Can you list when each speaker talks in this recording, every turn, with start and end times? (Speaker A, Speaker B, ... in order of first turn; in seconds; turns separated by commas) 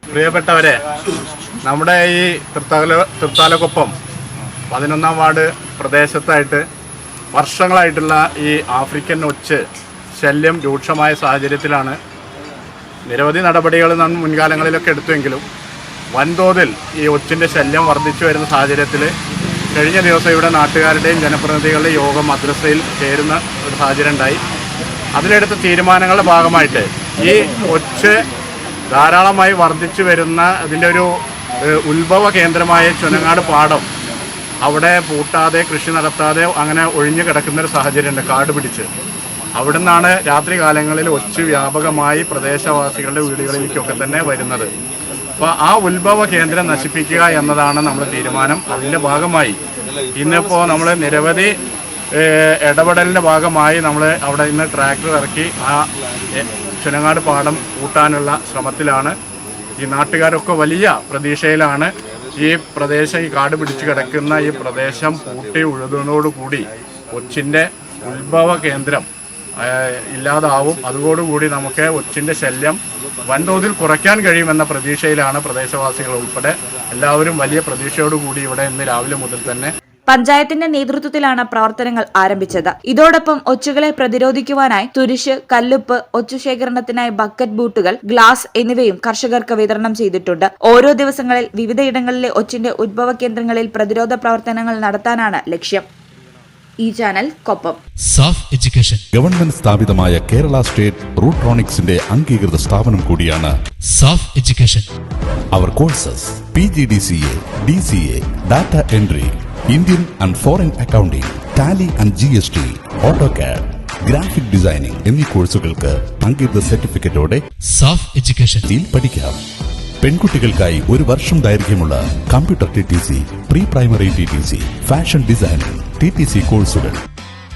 Speaker A: 0.1-0.8, Speaker A: 1.6-3.9, Speaker A: 4.7-6.6, Speaker A: 7.3-9.6, Speaker A: 10.2-12.0, Speaker A: 13.1-15.4, Speaker A: 16.1-19.1, Speaker A: 19.7-24.4, Speaker A: 25.1-28.2, Speaker A: 28.9-31.1, Speaker A: 31.6-33.9, Speaker A: 34.6-38.9, Speaker A: 39.6-44.7, Speaker A: 45.4-49.6, Speaker A: 50.1-51.5, Speaker A: 52.1-59.2, Speaker A: 59.8-69.1, Speaker A: 69.6-79.7, Speaker B: 80.1-95.9, Speaker B: 96.8-97.8, Speaker C: 98.0-99.0, Speaker D: 99.1-103.5, Speaker C: 103.9-104.9, Speaker D: 105.5-117.4, Speaker C: 117.7-118.7, Speaker D: 118.7-119.4, Speaker D: 120.0-127.0